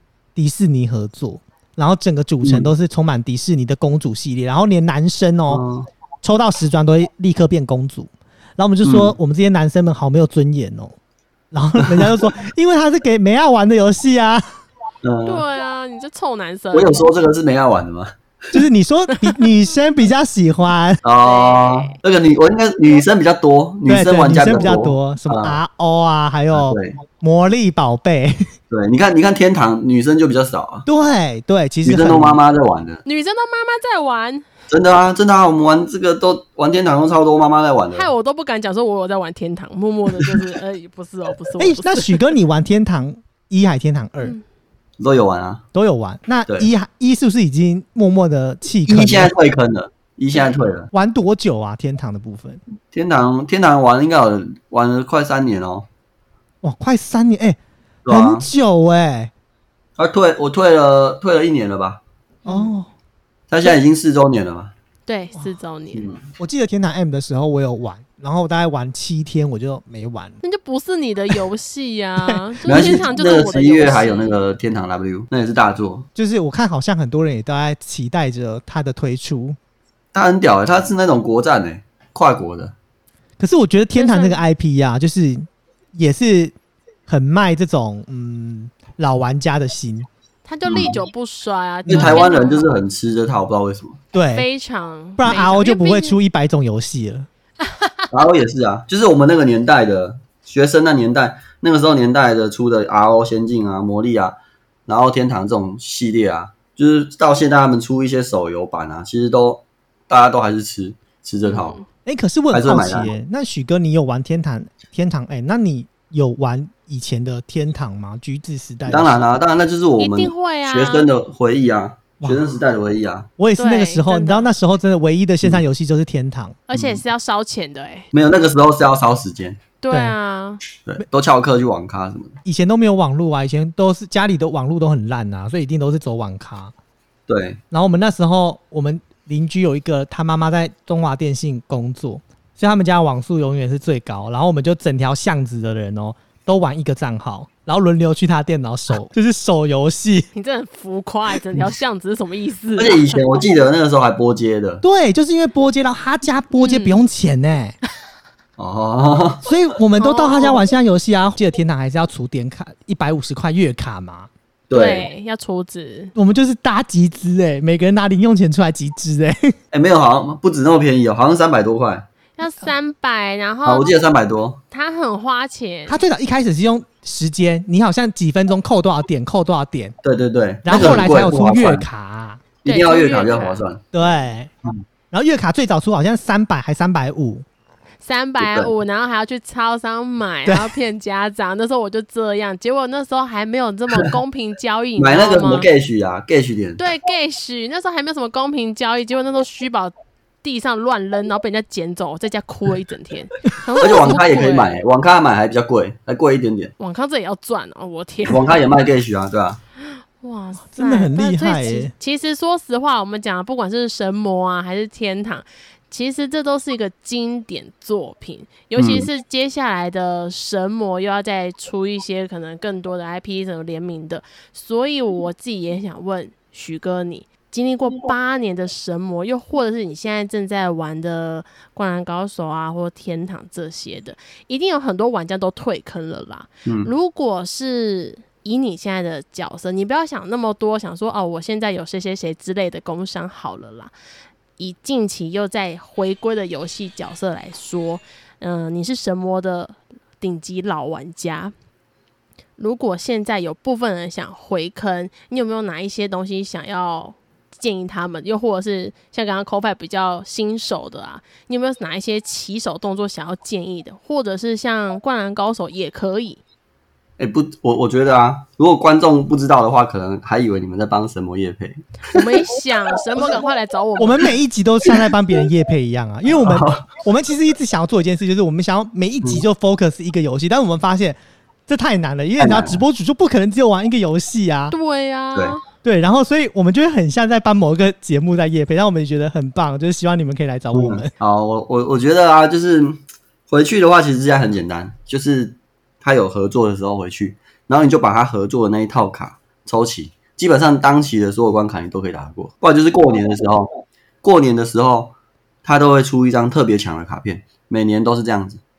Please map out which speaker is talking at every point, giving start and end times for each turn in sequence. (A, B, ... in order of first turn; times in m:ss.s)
0:00.4-0:05.6 A
0:02.4-0:02.7 B
0:05.5-0:05.9 B
0:06.2-0:10.9 A
0:08.8-0:09.1 B
0:11.5-0:14.4 A
0:11.8-0:12.2 B
0:15.0-0:15.4 B
0:15.2-0:17.1 C
0:16.7-0:18.6 B
0:18.5-0:21.0 A
0:21.0-0:25.6 B
0:21.2-0:22.0 C
0:23.9-0:28.5 A
0:26.5-0:27.0 B
0:28.7-0:30.9 B
0:30.9-0:32.4 A
0:31.8-0:33.0 B
0:33.0-0:34.4 C
0:34.7-0:38.1 B
0:37.9-0:42.3 C
0:41.6-0:44.4 A
0:45.0-0:45.6 B
0:45.7-0:49.3 A
0:48.9-0:50.9 B
0:50.9-0:52.6 A
0:52.9-0:55.9 B
0:56.6-0:59.3 A
0:58.0-0:58.5 B
1:00.0-1:02.0 B
1:02.4-1:02.8 C
1:02.4-1:02.9 A
1:03.5-1:04.7 B
1:05.1-1:06.1 C
1:05.9-1:06.2 B
1:06.4-1:10.4 A
1:10.4-1:14.4 C
1:12.2-1:12.9 A
1:12.6-1:16.1 B
1:16.1-1:19.6 A
1:20.1-1:22.7 B
1:23.4-1:26.5 A
1:23.9-1:24.4 C
1:27.1-1:30.1 A
1:30.4-1:32.7 C
1:30.7-1:31.0 B
1:31.9-1:34.0 B
1:31.9-1:32.2 A
1:34.1-1:34.4 A
1:34.3-1:36.2 C
1:35.2-1:37.3 A
1:37.6-1:38.0 C
1:38.1-1:44.4 B
1:44.9-1:51.8 B
1:51.4-1:51.8 C
1:52.1-1:59.2 A
1:52.5-1:53.1 B
1:58.9-2:03.3 B
2:00.0-2:01.1 C
2:02.2-2:02.6 A
2:03.4-2:06.6 A
2:03.6-2:04.5 C
2:06.7-2:08.1 C
2:06.7-2:07.0 B
2:08.1-2:09.6 B
2:09.8-2:10.6 C
2:10.8-2:12.4 B
2:12.4-2:16.7 A
2:17.3-2:17.6 B
2:17.7-2:30.3 A
2:30.3-2:33.2 C
2:32.8-2:34.8 B
2:34.8-2:37.8 A
2:36.6-2:37.0 C
2:38.6-2:39.4 B
2:39.4-2:44.3 A
2:40.0-2:40.6 C
2:44.7-2:45.1 B
2:44.7-2:46.1 C
2:46.1-2:49.5 A
2:49.7-2:52.1 B
2:52.4-2:54.0 C
2:53.6-2:54.6 B
2:54.7-2:56.0 C
2:55.9-2:59.9 A
3:00.0-3:01.8 B
3:00.6-3:02.4 A
3:02.6-3:03.9 B
3:02.6-3:03.6 C
3:03.9-3:04.5 A
3:05.1-3:07.4 A
3:08.0-3:15.7 C
3:08.4-3:08.7 B
3:10.4-3:10.7 A
3:15.0-3:16.8 B
3:16.8-3:24.7 C
3:23.8-3:26.7 B
3:26.8-3:28.6 C
3:28.2-3:29.6 B
3:30.2-4:03.9 C
3:30.6-3:31.9 A
3:38.8-3:39.1 B
3:56.6-3:56.9 B
4:04.6-4:11.5 C
4:12.6-4:26.4 C
4:27.2-4:32.3 B
4:32.0-4:34.3 C
4:34.0-4:44.7 A
4:36.3-4:36.9 B
4:42.4-4:42.8 B
4:44.7-4:45.6 C
4:45.8-4:51.1 A
4:50.7-4:53.0 B
4:53.5-5:03.7 B
5:04.2-5:05.1 B
5:05.6-5:08.6 B